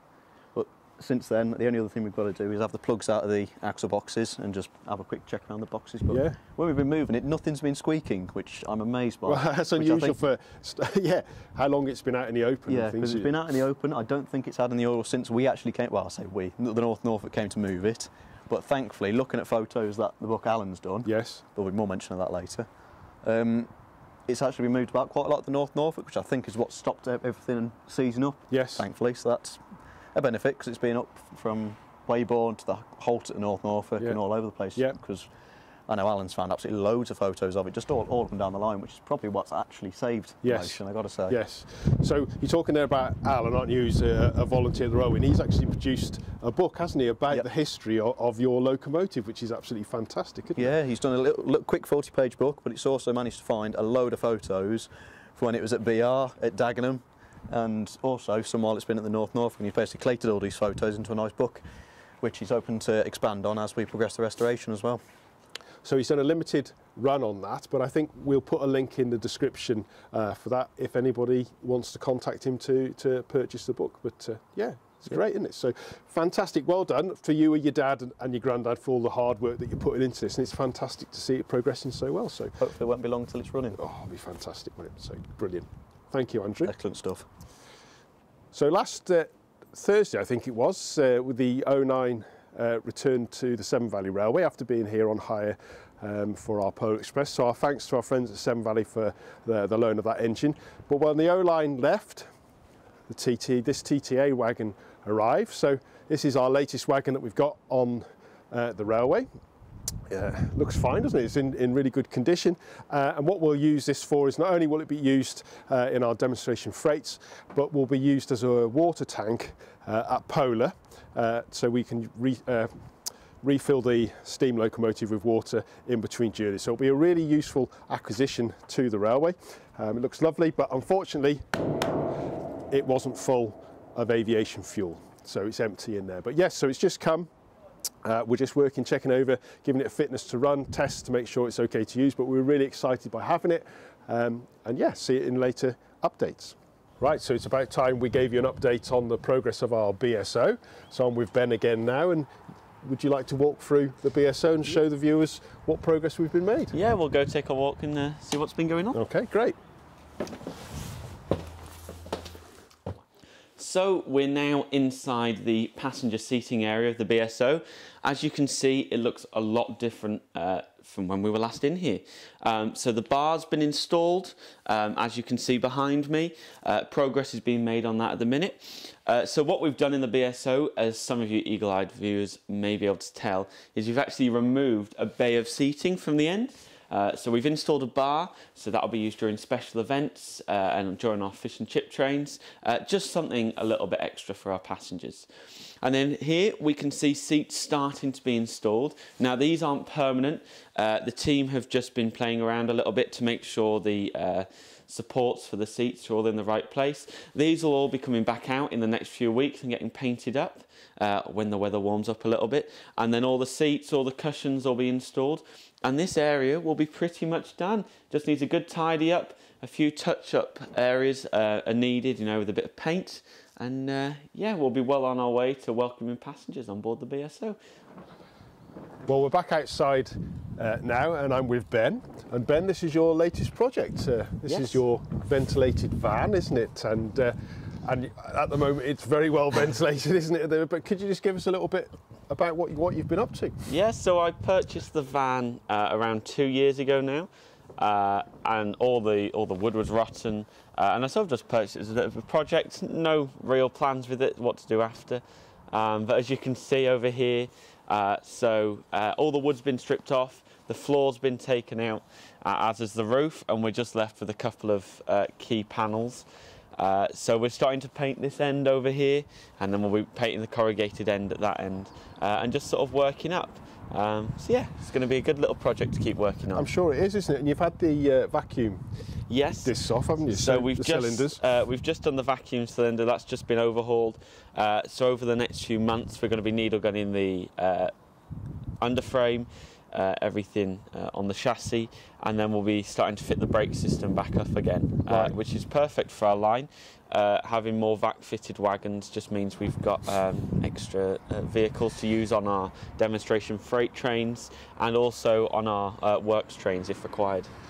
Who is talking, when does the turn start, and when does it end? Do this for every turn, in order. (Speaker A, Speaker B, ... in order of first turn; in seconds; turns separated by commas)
Speaker A: 0.5-10.2, Speaker B: 6.1-6.4, Speaker B: 9.3-13.4, Speaker A: 12.7-22.7, Speaker B: 21.1-21.4, Speaker A: 23.2-23.7, Speaker A: 24.3-29.6, Speaker B: 28.5-28.9, Speaker A: 30.1-35.3, Speaker A: 35.9-41.4, Speaker B: 40.4-50.7, Speaker A: 50.6-61.6, Speaker A: 62.2-65.0, Speaker B: 65.8-82.6, Speaker A: 82.6-83.8, Speaker B: 83.8-86.7, Speaker A: 86.7-87.3, Speaker B: 88.5-102.3, Speaker B: 103.1-109.3, Speaker B: 110.1-122.8, Speaker B: 123.4-131.9, Speaker B: 132.7-137.3, Speaker B: 138.0-156.8, Speaker C: 156.7-159.0, Speaker B: 158.9-159.6, Speaker C: 163.6-195.3, Speaker C: 195.8-227.6, Speaker B: 229.0-243.7, Speaker C: 234.5-234.8, Speaker C: 243.7-276.7, Speaker B: 276.5-278.8, Speaker C: 279.3-287.9, Speaker B: 279.6-281.4, Speaker C: 288.8-307.5